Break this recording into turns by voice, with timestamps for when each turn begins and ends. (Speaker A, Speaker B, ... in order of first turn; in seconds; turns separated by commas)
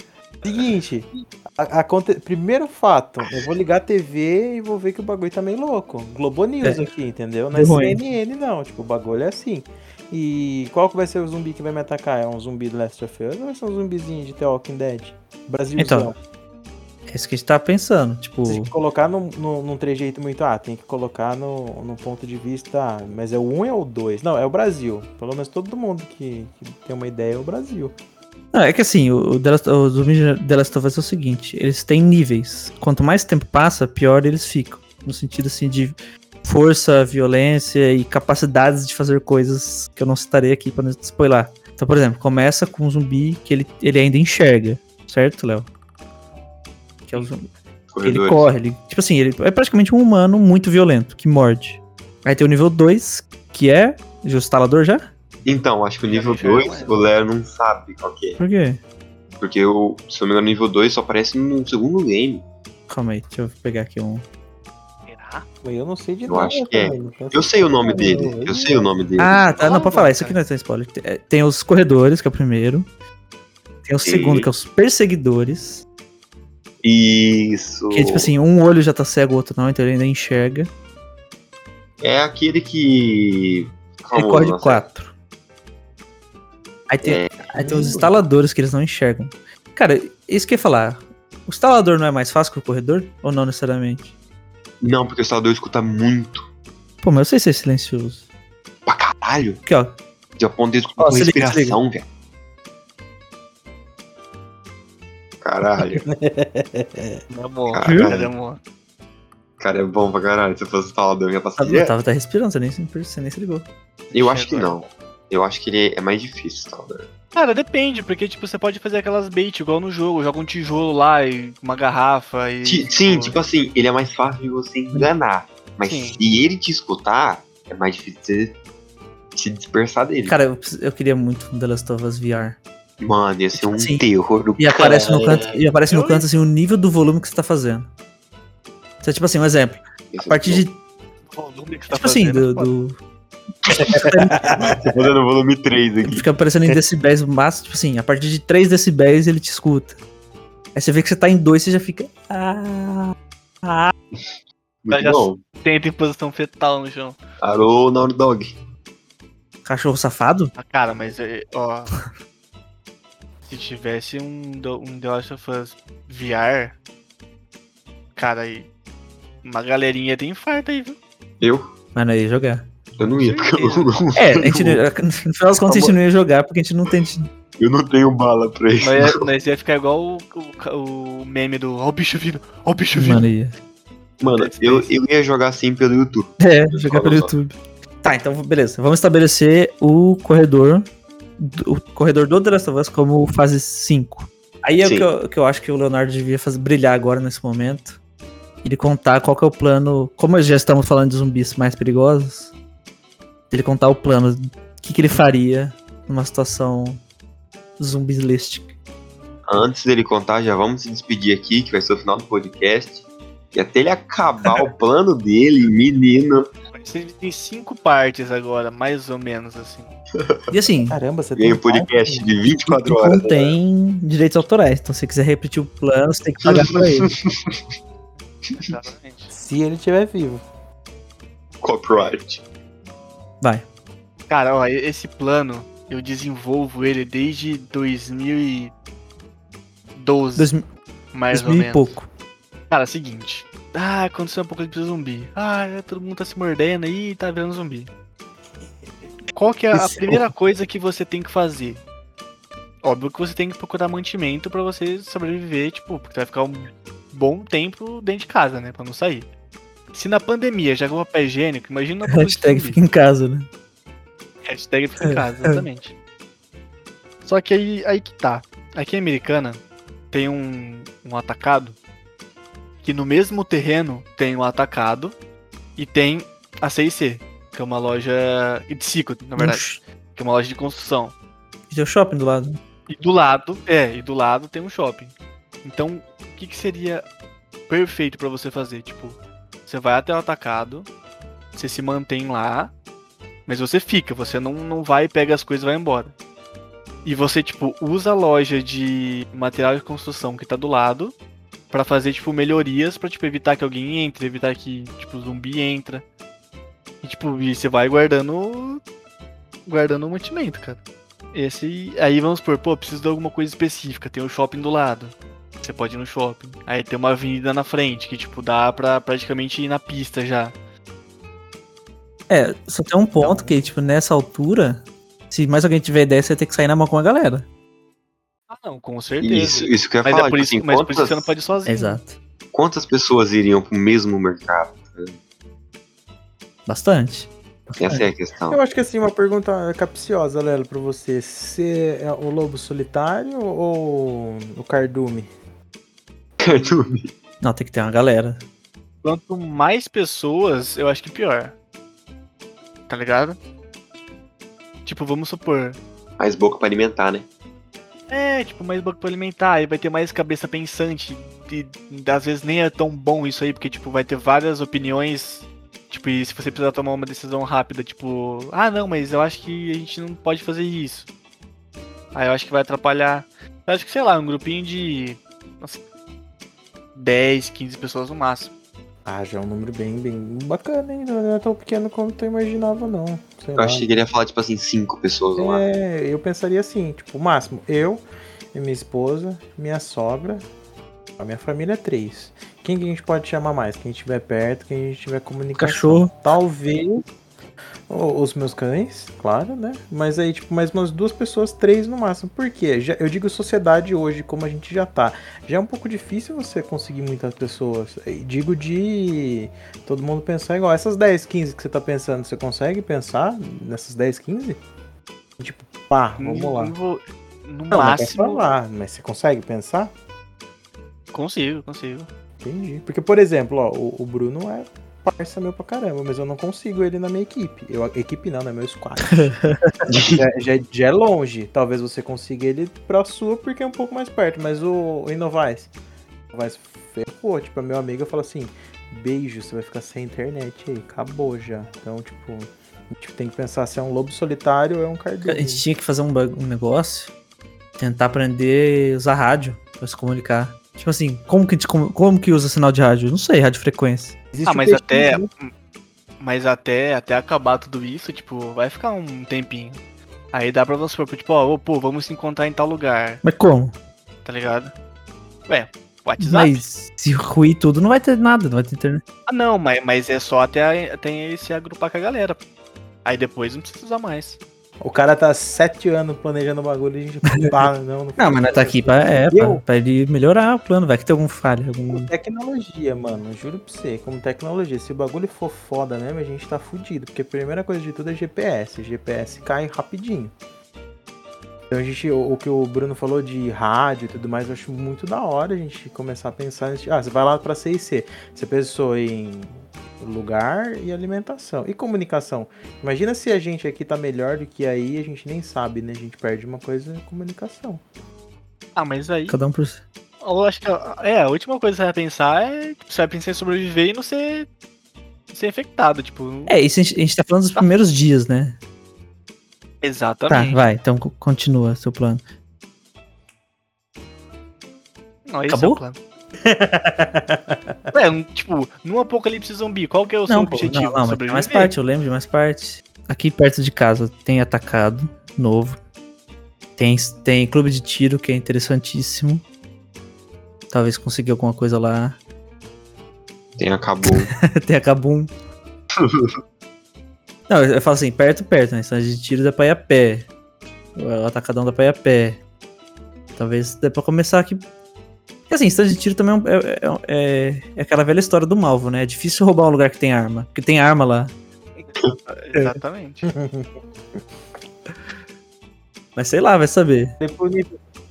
Speaker A: 0.4-16.1, Speaker B: 6.6-6.9, Speaker B: 7.5-8.0, Speaker B: 15.8-16.1, Speaker B: 17.1-18.7, Speaker A: 18.4-27.9, Speaker B: 28.5-45.7, Speaker B: 47.1-47.5, Speaker C: 47.9-48.5, Speaker B: 48.0-55.1, Speaker C: 55.5-58.4, Speaker D: 56.0-57.1, Speaker B: 58.4-58.8, Speaker C: 59.4-62.4, Speaker B: 62.9-64.2, Speaker D: 65.0-65.5, Speaker A: 65.6-68.9, Speaker C: 66.3-69.5, Speaker B: 69.2-72.9, Speaker D: 69.6-70.4, Speaker B: 73.8-75.8, Speaker C: 74.0-74.5, Speaker C: 76.8-78.3, Speaker B: 77.9-80.7, Speaker C: 82.0-84.8, Speaker B: 84.1-85.1, Speaker B: 86.9-94.1, Speaker C: 87.0-88.1, Speaker C: 94.8-96.5, Speaker B: 97.0-98.2, Speaker C: 98.8-99.6, Speaker B: 99.7-99.9, Speaker C: 100.4-102.0, Speaker B: 101.0-101.8, Speaker C: 105.4-106.0, Speaker A: 105.8-107.2, Speaker D: 107.3-108.6, Speaker C: 107.7-108.3, Speaker B: 107.8-108.1, Speaker C: 109.6-111.9, Speaker B: 111.6-113.7, Speaker C: 114.1-117.1, Speaker D: 114.1-114.8, Speaker D: 117.3-123.4, Speaker C: 122.6-128.6, Speaker D: 125.8-126.2, Speaker C: 129.3-130.3, Speaker B: 130.2-132.6, Speaker C: 133.0-135.6, Speaker B: 133.5-134.0, Speaker B: 134.6-137.9, Speaker D: 135.9-136.2, Speaker B: 139.0-140.8, Speaker C: 140.1-140.6, Speaker D: 141.3-142.7, Speaker B: 141.9-143.0, Speaker B: 143.7-144.5, Speaker C: 144.5-146.2, Speaker B: 146.0-150.0, Speaker B: 150.7-153.9, Speaker C: 154.8-155.4, Speaker D: 154.9-157.2, Speaker C: 157.4-158.5, Speaker B: 159.6-160.5, Speaker D: 160.6-162.0, Speaker D: 163.4-166.8, Speaker D: 168.2-168.7, Speaker D: 169.4-171.0, Speaker C: 171.4-171.7, Speaker B: 171.9-172.7, Speaker C: 173.0-174.8, Speaker D: 173.2-173.9, Speaker B: 174.2-177.3, Speaker C: 175.7-175.9, Speaker C: 177.6-179.1, Speaker D: 178.8-183.3, Speaker B: 182.9-183.5, Speaker C: 184.2-187.3, Speaker D: 184.3-184.9, Speaker B: 186.4-190.8, Speaker B: 191.4-198.0, Speaker C: 194.8-195.1, Speaker B: 198.6-202.5, Speaker B: 203.5-207.0, Speaker B: 207.8-208.7, Speaker C: 209.5-216.5, Speaker D: 216.7-219.9, Speaker B: 220.5-221.0, Speaker A: 220.9-222.4, Speaker C: 221.3-223.6, Speaker B: 222.7-227.1, Speaker C: 226.4-227.5, Speaker D: 228.6-229.3, Speaker A: 229.3-230.4, Speaker C: 231.6-232.4, Speaker B: 233.4-233.7, Speaker D: 234.3-238.7, Speaker D: 239.9-240.5, Speaker B: 240.4-240.6, Speaker D: 241.1-241.9, Speaker B: 241.3-242.1, Speaker D: 242.7-247.9, Speaker D: 249.3-251.8, Speaker B: 249.7-250.2, Speaker D: 252.8-259.3, Speaker D: 259.9-262.8, Speaker B: 262.1-263.5, Speaker D: 264.4-265.9, Speaker B: 265.0-265.6, Speaker D: 267.2-269.6, Speaker D: 270.1-271.8, Speaker D: 272.8-275.1, Speaker D: 275.8-281.1, Speaker B: 279.4-279.8, Speaker B: 281.7-282.6, Speaker D: 282.9-285.1, Speaker D: 285.6-287.0, Speaker D: 287.7-290.9, Speaker D: 291.5-292.7, Speaker D: 293.5-296.1, Speaker D: 297.0-301.1, Speaker D: 301.7-306.0, Speaker D: 307.0-308.8, Speaker D: 309.6-310.8, Speaker D: 311.3-320.5, Speaker B: 322.3-327.4, Speaker D: 323.2-323.5, Speaker D: 328.5-332.0, Speaker C: 329.2-331.3, Speaker B: 331.6-332.2, Speaker C: 332.5-335.2, Speaker B: 336.7-338.1, Speaker C: 337.8-338.6, Speaker A: 338.5-345.3, Speaker C: 346.4-347.1, Speaker B: 347.4-348.4, Speaker D: 349.0-351.5, Speaker D: 352.9-353.4, Speaker D: 354.8-355.8, Speaker C: 356.2-357.2, Speaker D: 358.1-371.1, Speaker D: 372.1-375.8, Speaker D: 376.9-378.5, Speaker A: 379.1-383.9, Speaker C: 383.6-385.6, Speaker A: 385.4-388.0, Speaker A: 388.5-390.4, Speaker A: 391.2-397.0, Speaker B: 395.6-396.1, Speaker A: 397.9-414.6, Speaker A: 415.4-416.7, Speaker D: 416.2-418.4, Speaker A: 417.7-419.9, Speaker D: 421.1-422.1, Speaker A: 422.4-429.5, Speaker B: 429.1-429.7, Speaker C: 429.9-430.2, Speaker A: 430.1-435.7, Speaker A: 436.3-445.6, Speaker B: 445.2-447.1, Speaker B: 447.8-454.1, Speaker A: 454.3-455.3, Speaker D: 454.4-455.5, Speaker D: 456.2-459.8, Speaker D: 460.3-463.2, Speaker B: 463.2-463.7, Speaker D: 464.2-464.7, Speaker D: 465.5-466.6, Speaker B: 466.2-469.0, Speaker D: 469.3-472.4, Speaker D: 473.0-474.4, Speaker A: 474.8-479.6, Speaker B: 477.3-477.6, Speaker B: 478.2-482.1, Speaker A: 481.9-490.3, Speaker A: 491.7-507.8, Speaker D: 508.8-509.4, Speaker B: 509.3-509.8, Speaker D: 510.2-514.5, Speaker D: 515.3-516.6, Speaker B: 516.5-518.6, Speaker D: 519.8-520.6, Speaker B: 520.3-522.2, Speaker D: 525.3-526.0, Speaker B: 525.5-525.8, Speaker A: 526.4-527.7, Speaker D: 527.9-531.7, Speaker B: 530.3-535.8, Speaker B: 536.8-539.4, Speaker B: 540.7-542.2, Speaker C: 543.6-544.3, Speaker B: 544.1-545.3, Speaker C: 546.0-546.3, Speaker B: 547.5-550.3, Speaker B: 551.0-552.4, Speaker B: 553.4-554.6, Speaker B: 555.5-561.3, Speaker D: 561.8-563.3, Speaker A: 563.3-563.7, Speaker B: 566.1-567.1, Speaker A: 567.2-567.7